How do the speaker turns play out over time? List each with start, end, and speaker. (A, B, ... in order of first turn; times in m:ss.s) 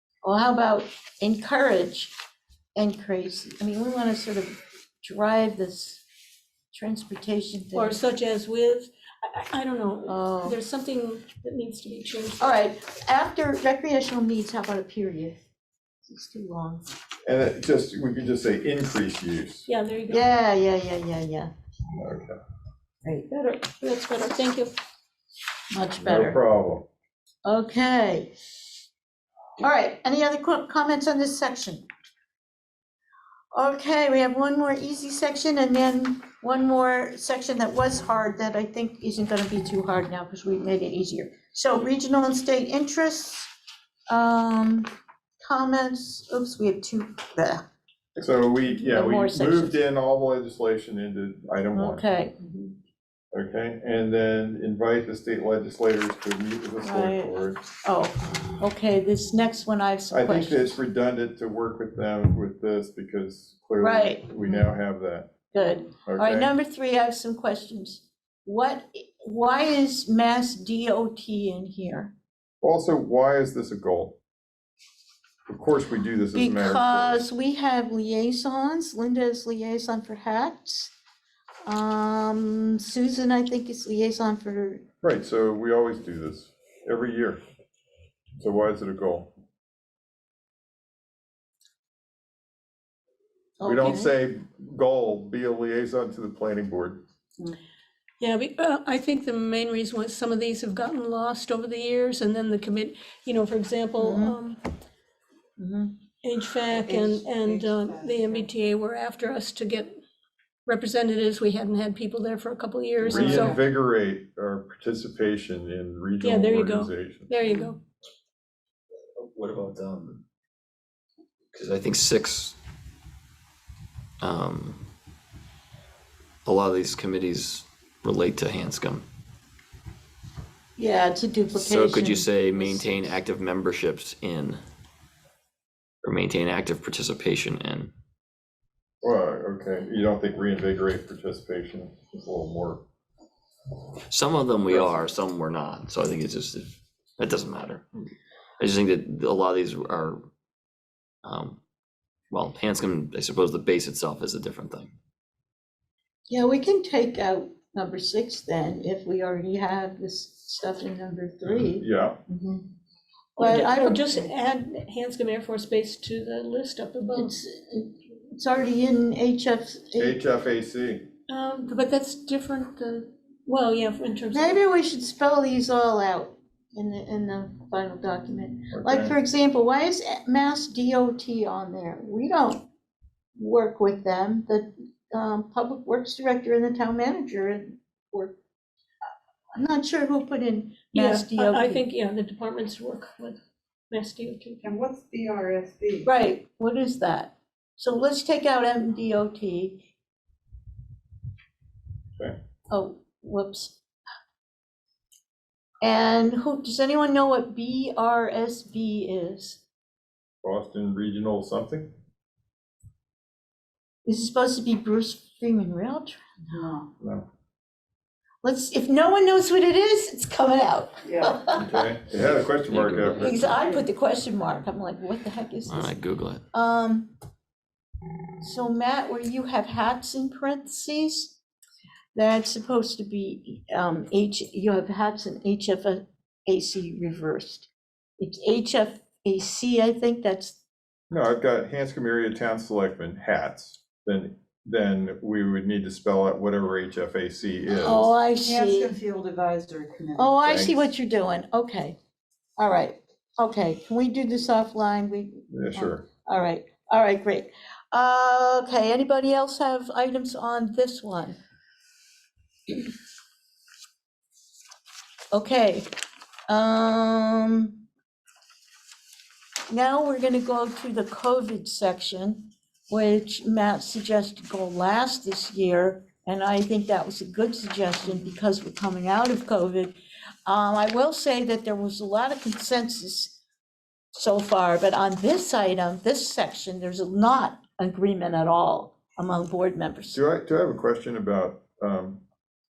0:00.2-0:02.1 A
0:02.8-0:06.0 A
0:06.7-0:08.0 A
0:07.7-0:12.5 B
0:10.1-0:10.6 A
0:12.4-0:15.4 A
0:16.0-0:16.9 A
0:17.2-0:19.7 C
0:19.7-0:20.3 B
0:20.1-0:21.5 A
0:21.9-0:22.4 C
0:23.3-0:24.7 B
0:25.7-0:26.4 A
0:26.0-0:26.9 C
0:27.4-0:28.3 A
0:29.6-0:31.8 A
0:33.5-0:43.5 A
0:44.1-0:44.9 A
0:45.4-0:47.6 A
0:48.2-0:52.0 C
0:48.7-0:49.8 A
0:51.7-0:52.7 A
0:53.3-0:57.6 C
0:56.8-1:00.8 A
1:00.1-1:06.5 C
1:03.8-1:04.7 A
1:05.5-1:12.1 A
1:12.6-1:14.2 C
1:15.5-1:17.2 C
1:16.3-1:20.9 A
1:21.6-1:24.8 A
1:25.0-1:27.4 C
1:28.4-1:29.3 C
1:33.6-1:34.1 A
1:33.6-1:37.0 C
1:38.2-1:44.6 B
1:44.0-1:44.4 A
1:45.6-1:46.0 A
1:46.2-1:50.0 B
1:46.9-1:48.3 D
1:50.6-1:53.6 B
1:53.0-1:57.4 C
1:56.2-1:57.8 B
1:59.2-2:00.2 E
2:01.5-2:02.5 E
2:04.2-2:04.8 E
2:06.4-2:09.0 E
2:10.8-2:13.1 A
2:11.5-2:14.6 E
2:16.0-2:17.9 E
2:19.0-2:22.8 C
2:24.1-2:27.8 E
2:24.7-2:25.0 C
2:28.6-2:30.2 E
2:31.2-2:31.6 E
2:32.3-2:34.9 E
2:36.3-2:42.6 A
2:41.5-2:42.2 C
2:43.4-2:44.3 A
2:43.4-2:47.3 B
2:47.1-2:50.2 A
2:50.0-2:51.1 C
2:51.3-2:54.6 B
2:54.3-3:02.7 A
2:58.7-2:59.1 C
3:03.4-3:08.4 A
3:09.6-3:11.8 A
3:10.9-3:14.6 B
3:14.7-3:16.0 D
3:16.0-3:19.9 A
3:22.7-3:23.8 A
3:25.8-3:29.6 A
3:30.4-3:31.9 C
3:34.0-3:36.8 A
3:37.0-3:37.3 C
3:38.4-3:41.9 A
3:41.1-3:41.4 D
3:41.5-3:43.6 C
3:42.3-3:43.7 E
3:43.2-3:46.0 A
3:45.7-3:46.4 E
3:46.5-3:47.1 A
3:48.4-3:51.4 A
3:52.1-4:00.6 A
4:01.1-4:08.1 C
4:07.8-4:09.0 A
4:08.4-4:10.4 D
4:10.2-4:12.0 A
4:10.4-4:10.8 C
4:12.6-4:21.4 A
4:15.5-4:16.0 C
4:25.3-4:25.9 A
4:26.5-4:27.8 A
4:29.7-4:43.4 A
4:44.1-4:50.2 A
4:50.1-4:52.2 C